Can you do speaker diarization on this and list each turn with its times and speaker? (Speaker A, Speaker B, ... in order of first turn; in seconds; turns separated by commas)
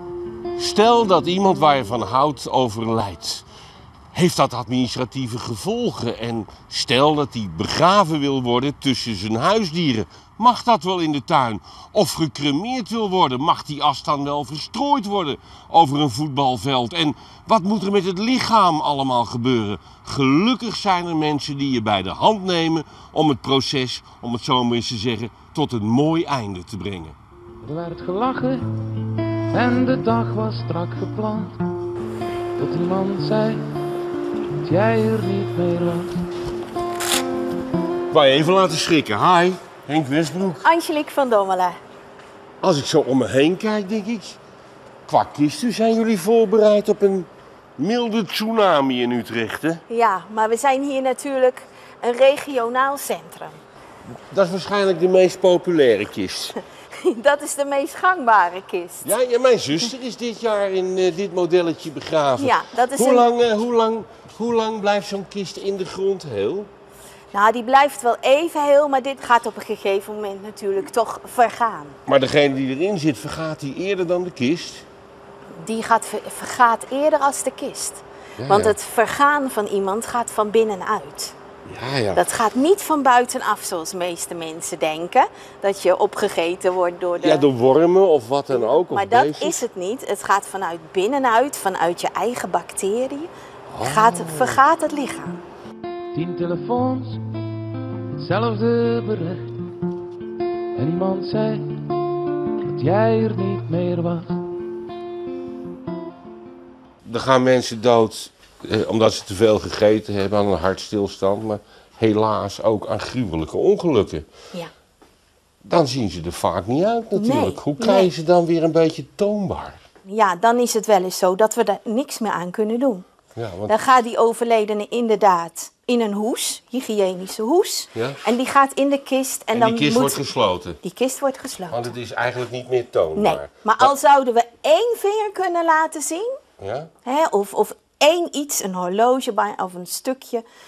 Speaker A: 0.6-3.5, Speaker A: 4.1-27.2, Speaker B: 27.6-28.7, Speaker B: 29.5-31.6, Speaker B: 32.6-33.7, Speaker B: 34.6-36.2, Speaker A: 38.1-40.6, Speaker C: 40.6-41.8, Speaker A: 42.6-44.4, Speaker A: 45.1-49.8, Speaker C: 49.9-53.6, Speaker A: 54.3-56.6, Speaker C: 56.9-59.1, Speaker A: 59.0-66.7, Speaker C: 62.4-63.3, Speaker C: 67.3-72.0, Speaker A: 72.1-74.9, Speaker C: 75.6-81.3, Speaker A: 78.4-78.8, Speaker A: 81.7-82.2, Speaker C: 82.2-87.5, Speaker A: 87.2-89.7, Speaker C: 88.5-93.3, Speaker A: 93.7-94.6, Speaker C: 93.8-95.4, Speaker B: 96.1-97.2, Speaker B: 98.1-99.5, Speaker B: 100.8-101.8, Speaker B: 102.7-104.4, Speaker A: 107.0-114.3, Speaker A: 115.6-119.8, Speaker C: 117.2-118.1, Speaker C: 120.1-123.0, Speaker A: 123.4-123.8, Speaker C: 123.7-130.2, Speaker A: 128.0-128.2, Speaker A: 129.5-130.8, Speaker C: 130.8-131.9, Speaker A: 131.7-133.9, Speaker C: 133.2-136.3, Speaker A: 136.6-136.9, Speaker C: 137.1-140.4